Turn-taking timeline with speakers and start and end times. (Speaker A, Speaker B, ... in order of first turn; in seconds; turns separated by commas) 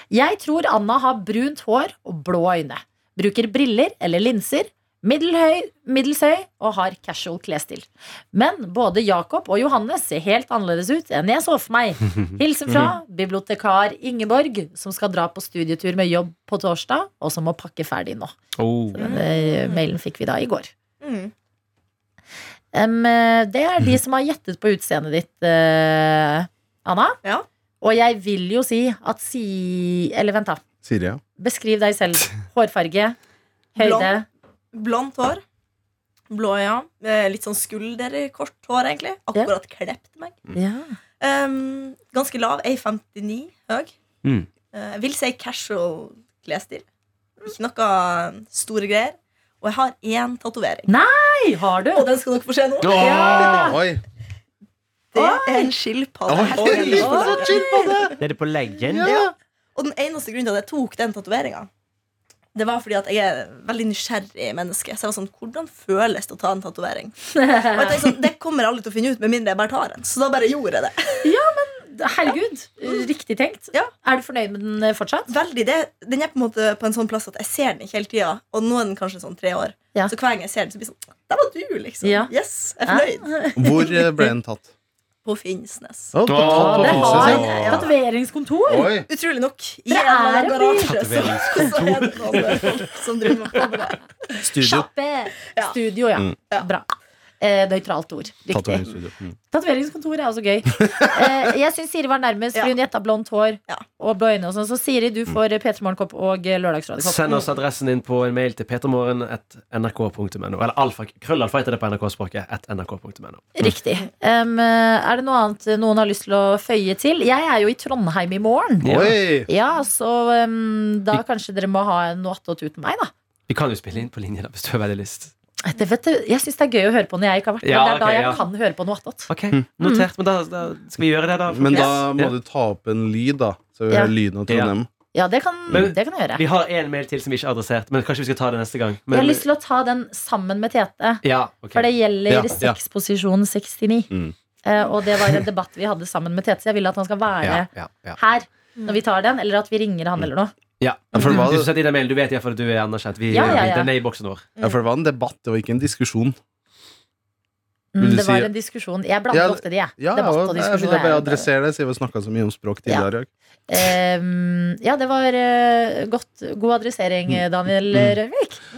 Speaker A: 0.1-18.4, Speaker B: 18.6-19.2, Speaker A: 18.9-20.7, Speaker C: 19.0-19.8, Speaker C: 21.0-21.3, Speaker A: 22.7-27.2, Speaker A: 27.8-30.6, Speaker D: 30.8-31.2, Speaker A: 31.4-33.2, Speaker A: 33.8-34.2, Speaker C: 33.8-34.1, Speaker C: 34.7-35.4, Speaker C: 36.3-40.4, Speaker A: 40.5-40.9, Speaker C: 41.2-43.9, Speaker C: 44.7-46.9, Speaker C: 47.4-50.9, Speaker A: 50.9-52.1, Speaker C: 51.9-53.7, Speaker B: 52.8-53.8, Speaker A: 52.9-53.8, Speaker D: 53.5-54.0, Speaker C: 55.1-58.2, Speaker A: 55.1-55.7, Speaker D: 56.3-58.2, Speaker A: 56.9-57.6, Speaker B: 58.2-59.1, Speaker D: 58.9-59.3, Speaker C: 59.0-61.7, Speaker C: 62.5-71.3, Speaker A: 67.3-68.2, Speaker A: 71.2-75.3, Speaker C: 75.3-83.3, Speaker A: 82.0-82.3, Speaker A: 82.9-84.3, Speaker D: 83.6-84.7, Speaker C: 85.2-86.1, Speaker D: 86.1-87.6, Speaker B: 86.3-87.9, Speaker A: 86.4-88.9, Speaker C: 86.7-87.9, Speaker D: 88.7-89.1, Speaker C: 89.1-94.2, Speaker A: 89.9-91.0, Speaker B: 90.9-92.9, Speaker D: 94.4-94.9, Speaker A: 94.5-96.9, Speaker A: 97.4-98.9, Speaker D: 98.5-99.4, Speaker A: 99.5-107.4, Speaker D: 100.8-101.5, Speaker B: 107.0-113.6, Speaker A: 113.5-123.1, Speaker B: 118.8-119.1, Speaker D: 118.9-119.5, Speaker B: 123.5-125.3, Speaker A: 125.6-129.3, Speaker B: 127.6-128.4, Speaker B: 129.3-132.3, Speaker A: 129.8-130.1, Speaker D: 131.5-134.9, Speaker B: 134.5-134.7, Speaker A: 135.1-136.4, Speaker B: 135.7-139.4, Speaker A: 139.1-144.1, Speaker B: 141.2-141.9, Speaker D: 142.3-142.8, Speaker A: 144.6-150.5, Speaker B: 147.4-148.2, Speaker B: 150.8-154.5, Speaker D: 151.1-151.7, Speaker A: 151.1-151.5, Speaker A: 153.3-153.9, Speaker D: 153.4-153.7, Speaker D: 154.6-156.4, Speaker A: 157.9-161.5, Speaker D: 158.0-158.5, Speaker D: 159.3-163.9, Speaker A: 163.7-168.6, Speaker D: 167.3-168.2